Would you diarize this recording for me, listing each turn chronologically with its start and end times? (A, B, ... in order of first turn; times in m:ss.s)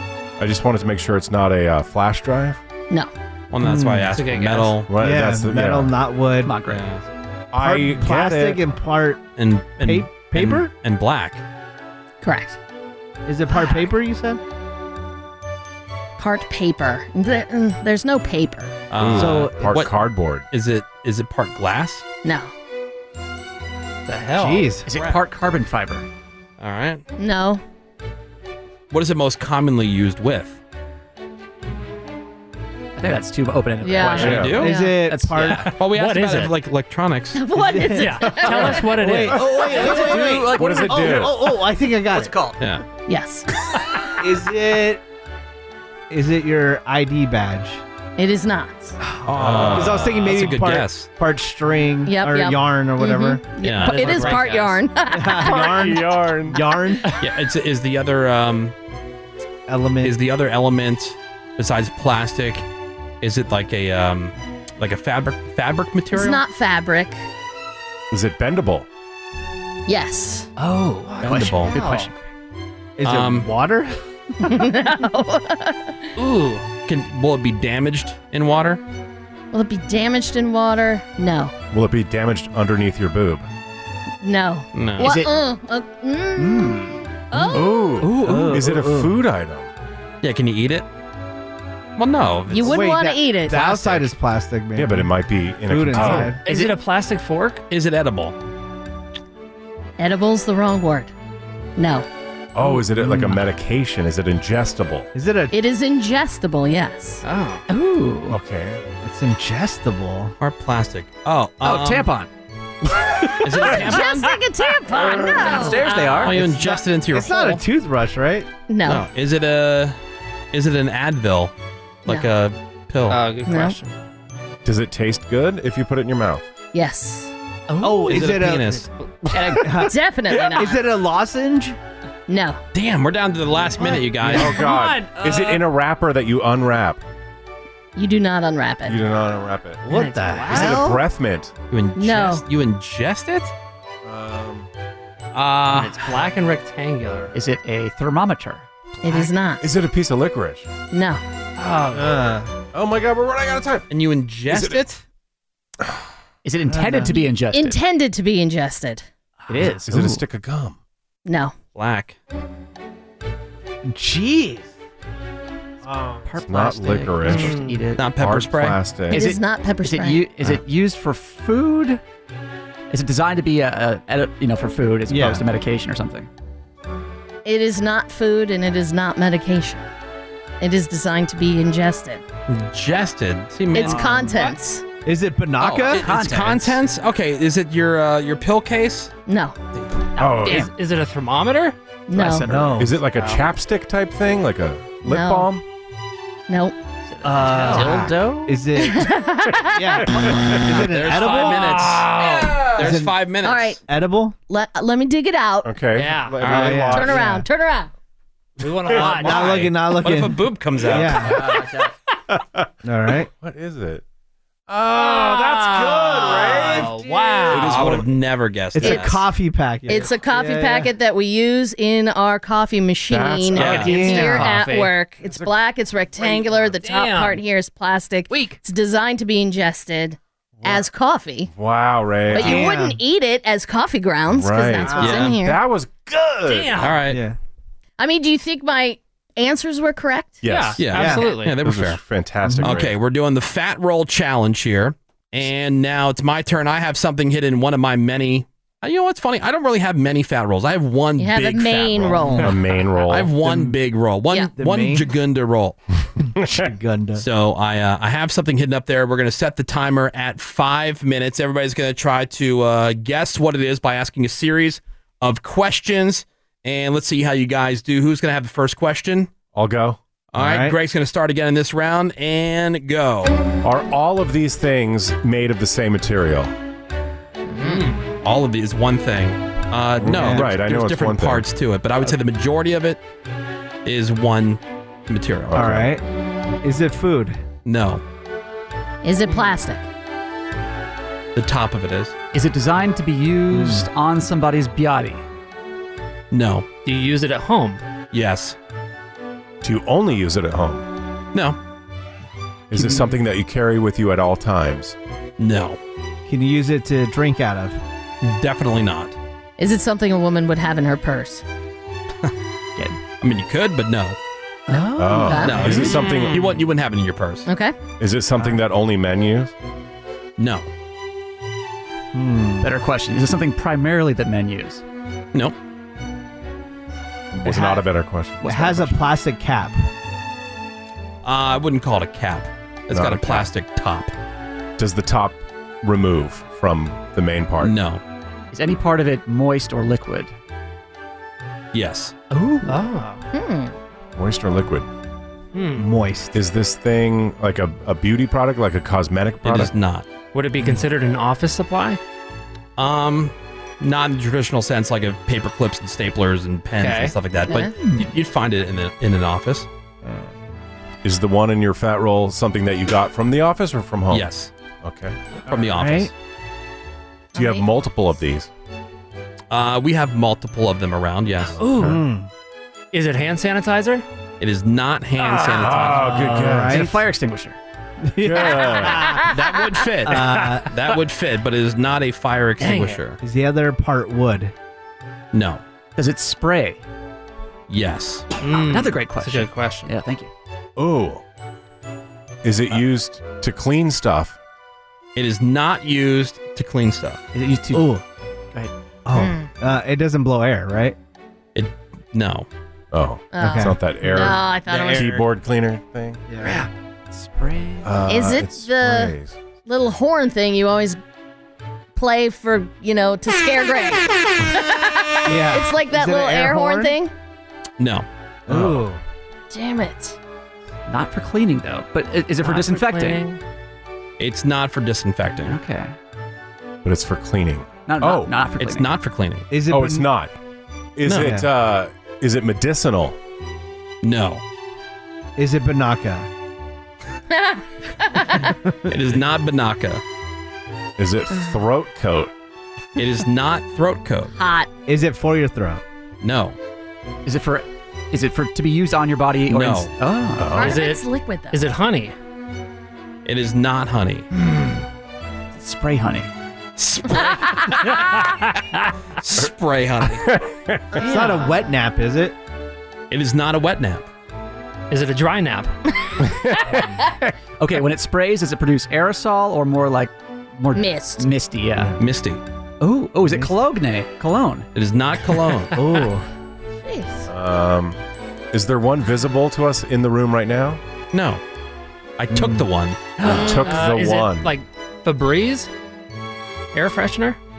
0:00.4-0:02.6 A
0:03.5-0:04.9 B
0:03.6-0:04.1 C
0:04.1-0:04.8 D
0:04.9-0:05.9 A
0:05.0-0:06.6 C
0:06.4-0:07.0 E
0:06.7-0:07.0 B
0:07.5-0:08.6 A
0:07.6-0:09.2 C
0:09.4-0:11.4 B
0:09.8-0:10.7 C
0:12.2-0:12.6 F
0:13.3-0:14.4 C
0:16.2-0:18.8 F
0:18.9-0:20.0 B
0:19.0-0:20.4 A
0:19.1-0:19.7 C
0:20.5-0:22.0 B
0:22.2-0:22.5 F
0:24.1-0:24.7 D
0:24.4-0:24.9 C
0:24.9-0:26.0 E
0:26.6-0:27.0 B
0:27.2-0:27.6 F
0:28.9-0:30.6 B
0:33.0-0:35.7 E
0:33.8-0:35.0 F
0:34.2-0:34.7 B
0:34.2-0:34.6 A
0:34.5-0:35.7 C
0:35.6-0:37.4 B
0:35.9-0:36.6 D
0:37.4-0:38.8 F
0:37.5-0:38.3 C
0:38.0-0:40.2 D
0:38.9-0:42.3 C
0:39.3-0:42.6 E
0:40.4-0:41.4 A
0:42.6-0:42.8 B
0:43.1-0:43.4 F
0:44.2-0:45.0 C
0:46.1-0:47.8 C
0:48.2-0:49.0 F
0:49.0-0:54.3 C
0:49.3-0:51.1 B
0:49.3-0:50.1 A
0:52.1-0:55.9 F
0:53.6-0:54.4 B
0:53.8-0:54.8 D
0:55.1-0:57.1 C
0:55.6-0:56.6 A
0:57.2-0:58.7 B
0:59.7-1:00.2 C
1:00.0-1:02.6 B
1:03.2-1:06.4 B
1:06.1-1:07.2 F
1:08.1-1:08.9 A
1:09.9-1:10.5 F
1:10.6-1:12.2 E
1:10.9-1:12.1 D
1:11.2-1:11.8 B
1:13.0-1:13.9 C
1:13.0-1:13.5 B
1:14.4-1:16.1 F
1:16.2-1:16.7 D
1:16.9-1:18.8 B
1:19.5-1:21.5 F
1:21.7-1:23.4 A
1:24.2-1:26.7 F
1:24.7-1:25.1 B
1:25.0-1:25.4 E
1:26.4-1:27.0 E
1:27.3-1:27.8 F
1:27.5-1:29.7 A
1:28.0-1:29.1 C
1:30.2-1:30.9 B
1:32.0-1:32.8 B
1:32.5-1:33.9 F
1:32.6-1:35.1 C
1:34.8-1:36.4 A
1:35.7-1:36.4 C
1:36.1-1:36.7 E
1:36.4-1:37.6 D
1:37.7-1:38.4 B
1:40.0-1:41.1 F
1:41.8-1:42.1 F
1:42.6-1:45.1 A
1:42.9-1:43.4 C
1:45.1-1:45.5 C
1:45.5-1:47.2 F
1:47.2-1:47.6 D
1:47.7-1:48.4 E
1:48.3-1:48.8 A
1:49.0-1:50.3 C
1:50.4-1:52.1 B
1:51.6-1:52.3 E
1:53.4-1:54.4 B
1:53.7-1:55.9 F
1:55.2-1:56.8 E
1:55.8-1:56.3 D
1:55.9-1:57.6 B
1:56.5-1:58.5 C
1:58.7-1:59.0 F
1:58.9-2:00.0 B
2:00.5-2:01.5 B
2:02.0-2:03.3 B
2:03.1-2:03.9 D
2:03.4-2:03.8 F
2:04.6-2:06.4 A
2:06.7-2:07.3 F
2:07.7-2:08.4 D
2:07.8-2:08.8 C
2:08.1-2:08.9 B
2:09.1-2:09.7 D
2:09.3-2:10.0 C
2:09.8-2:10.8 F
2:10.5-2:11.8 C
2:12.3-2:12.6 F
2:12.7-2:14.7 B
2:14.2-2:17.0 A
2:14.3-2:15.7 D
2:18.0-2:19.0 F
2:18.9-2:19.8 A
2:19.9-2:21.0 C
2:19.9-2:20.9 D
2:20.4-2:21.5 A
2:21.7-2:23.5 B
2:22.0-2:22.4 F
2:24.0-2:24.7 A
2:25.3-2:26.1 B
2:25.7-2:27.4 D
2:27.3-2:29.3 E
2:29.0-2:29.6 F
2:29.6-2:30.7 A
2:30.9-2:31.2 F
2:31.6-2:32.2 D
2:31.9-2:32.5 C
2:32.7-2:33.9 A
2:33.9-2:35.0 B
2:34.5-2:34.8 A
2:36.4-2:37.8 E
2:36.7-2:37.2 C
2:37.5-2:39.1 F
2:39.5-2:40.3 E
2:39.8-2:40.8 A
2:41.3-2:41.5 F
2:41.7-2:42.2 B
2:43.9-2:44.7 C
2:45.8-2:46.2 C
2:46.2-2:48.1 E
2:46.4-2:47.6 A
2:47.3-2:47.8 D
2:48.0-2:48.9 B
2:48.2-2:49.2 A
2:49.1-2:52.0 E
2:49.1-2:50.3 F
2:52.9-2:56.3 E
2:55.1-2:55.4 C
2:57.4-2:59.9 F
3:00.6-3:02.2 F
3:02.5-3:04.3 B
3:03.7-3:04.8 F
3:03.8-3:04.3 E
3:05.1-3:06.0 C
3:05.6-3:09.1 B
3:05.9-3:06.8 E
3:09.3-3:09.6 F
3:10.2-3:10.7 A
3:10.2-3:11.7 D
3:12.1-3:12.5 F
3:12.1-3:13.1 E
3:12.5-3:13.0 C
3:12.7-3:15.6 A
3:13.1-3:13.5 D
3:15.0-3:15.5 F
3:16.5-3:16.7 F
3:17.2-3:18.0 D
3:17.2-3:19.1 C
3:17.3-3:18.7 E
3:18.8-3:20.0 F
3:19.7-3:21.9 C
3:20.2-3:20.6 A
3:20.6-3:23.8 B
3:21.3-3:22.9 D
3:22.8-3:23.1 C
3:23.4-3:23.8 F
3:23.8-3:24.4 C
3:24.5-3:25.8 F
3:25.6-3:27.2 A
3:25.9-3:26.4 D
3:26.4-3:26.9 B
3:26.4-3:27.5 C
3:26.8-3:27.9 F
3:28.6-3:29.7 D
3:28.7-3:29.3 A
3:28.9-3:31.4 C
3:29.3-3:31.5 B
3:31.2-3:31.7 A
3:31.3-3:31.9 D
3:32.3-3:34.0 A
3:32.8-3:33.3 C
3:34.7-3:38.1 A
3:34.9-3:37.9 D
3:35.9-3:37.1 C
3:37.4-3:39.3 B
3:38.7-3:40.9 C
3:39.9-3:51.5 F
3:43.1-3:44.5 A
3:43.6-3:44.2 B
3:43.6-3:44.9 D
3:45.3-3:45.5 A
3:46.2-3:47.4 D
3:48.3-3:48.6 D
3:51.5-3:52.7 A
3:52.3-3:55.6 F
3:52.4-3:53.0 C
3:54.3-3:56.9 A
3:55.0-3:55.4 B
3:56.5-3:57.0 D
3:56.8-3:57.2 B
3:57.1-3:57.4 C
3:58.0-4:00.4 F
4:00.4-4:03.0 A
4:00.4-4:01.6 D
4:00.8-4:02.0 B
4:00.9-4:01.3 C
4:02.4-4:02.7 C
4:02.6-4:12.4 B
4:11.2-4:12.5 F
4:12.4-4:13.3 A
4:13.1-4:15.8 B
4:14.6-4:15.0 C
4:16.4-4:16.7 A
4:16.5-4:17.2 C
4:17.2-4:29.3 B
4:29.5-4:30.0 A
4:30.3-4:33.3 B
4:30.4-4:30.7 C
4:33.6-4:36.5 A
4:37.6-4:38.0 D
4:38.2-4:43.0 B
4:40.0-4:41.4 A
4:40.1-4:40.4 C
4:43.8-4:45.8 B
4:45.5-4:45.9 A
4:45.5-4:46.0 C
4:46.6-4:47.4 C
4:47.6-4:48.0 B
4:49.0-4:49.9 F
4:51.4-4:52.1 B
4:52.3-4:55.2 E
4:53.5-4:53.9 C
4:56.3-4:56.7 B
4:56.8-4:57.8 D
4:58.1-4:58.6 B
4:59.6-5:00.8 A
5:02.7-5:05.0 A
5:02.7-5:03.2 E
5:05.4-5:05.8 B
5:06.3-5:07.8 C
5:08.2-5:09.2 B
5:09.6-5:11.4 F
5:13.2-5:14.2 B
5:14.7-5:15.7 E
5:15.0-5:16.5 A
5:15.2-5:15.7 F
5:15.3-5:17.4 B
5:15.9-5:16.4 D
5:17.4-5:17.7 F
5:18.0-5:19.5 A
5:20.4-5:20.7 B
5:22.1-5:22.7 C
5:22.6-5:24.8 E
5:27.3-5:29.0 A
5:27.4-5:27.8 C
5:28.4-5:29.8 C
5:28.4-5:28.9 E
5:31.2-5:34.1 B
5:32.9-5:33.5 A
5:34.8-5:37.7 A
5:37.6-5:38.0 B
5:38.5-5:40.3 E
5:41.7-5:42.1 B
5:42.3-5:42.8 E
5:42.7-5:43.2 D
5:43.3-5:43.7 F
5:44.2-5:44.9 A
5:45.5-5:45.9 D
5:45.8-5:46.3 C
5:46.3-5:49.7 A
5:49.4-5:50.1 B
5:50.3-5:52.0 D
5:52.8-5:59.7 B
5:56.8-5:57.2 D
5:57.8-5:58.1 E
6:01.0-6:04.3 A
6:04.1-6:04.5 B
6:04.8-6:05.2 A
6:05.5-6:06.1 B
6:05.5-6:06.1 C
6:07.4-6:07.7 F
6:07.4-6:08.5 A
6:09.5-6:11.9 B
6:11.6-6:11.9 D
6:11.8-6:12.3 C
6:12.9-6:14.0 D
6:14.4-6:16.3 B
6:15.5-6:16.9 A
6:15.9-6:17.0 C
6:16.3-6:17.6 E
6:18.1-6:19.2 C
6:18.2-6:19.0 A
6:19.3-6:23.2 B
6:20.1-6:20.7 C
6:20.2-6:21.0 D
6:22.6-6:23.0 D
6:23.2-6:24.5 C
6:25.3-6:25.6 B
6:26.0-6:26.8 E
6:27.7-6:28.3 B
6:28.4-6:29.9 D
6:28.5-6:30.3 E
6:30.8-6:31.2 A
6:32.4-6:34.4 A
6:35.2-6:37.2 B
6:37.3-6:38.0 E
6:37.7-6:38.0 C
6:39.1-6:41.0 C
6:39.2-6:39.5 F
6:41.6-6:42.5 B
6:42.9-6:46.2 A
6:43.3-6:45.2 F
6:43.4-6:43.8 C
6:44.7-6:45.2 C
6:46.3-6:46.6 C
6:46.4-6:48.0 E
6:47.8-6:49.4 A
6:48.1-6:51.0 F
6:52.0-6:57.1 F
6:55.3-6:57.0 C
6:57.8-6:58.1 B
6:58.5-6:59.0 C
6:58.5-6:58.8 A
6:59.5-7:00.2 F
7:00.9-7:03.2 E
7:02.6-7:03.1 F
7:04.2-7:05.6 B
7:05.4-7:05.9 E
7:06.8-7:08.3 A
7:07.9-7:08.9 E
7:08.6-7:09.4 B
7:09.5-7:10.1 C
7:09.7-7:10.3 A
7:11.0-7:13.2 A
7:11.0-7:11.4 B
7:11.1-7:11.5 C
7:14.0-7:14.4 B
7:15.4-7:16.3 C
7:17.3-7:18.5 F
7:18.9-7:20.0 B
7:21.0-7:22.3 A
7:23.0-7:24.3 B
7:24.4-7:24.7 F
7:24.9-7:25.8 C
7:26.2-7:26.6 B
7:27.3-7:30.6 E
7:29.5-7:29.9 B
7:30.4-7:30.8 A
7:30.5-7:31.6 F
7:30.6-7:32.2 D
7:33.3-7:34.3 B
7:35.5-7:36.3 E
7:36.8-7:38.3 B
7:37.9-7:38.4 D
7:39.2-7:40.4 B
7:40.1-7:41.0 A
7:41.0-7:41.4 F
7:41.0-7:42.4 C
7:43.1-7:44.0 B
7:44.9-7:45.7 D
7:46.2-7:47.0 A
7:47.6-7:52.0 E
7:50.7-7:51.3 F
7:52.0-7:52.4 B
7:52.8-7:54.7 E
7:53.3-7:53.5 C
7:54.7-7:55.8 B
7:55.7-7:56.2 C
7:56.8-7:57.3 F
7:57.3-7:58.0 A
7:58.5-8:00.8 A
8:01.1-8:01.4 B
8:02.2-8:03.1 B
8:02.3-8:02.6 C
8:03.2-8:05.7 D
8:03.2-8:04.5 A
8:06.7-8:07.4 D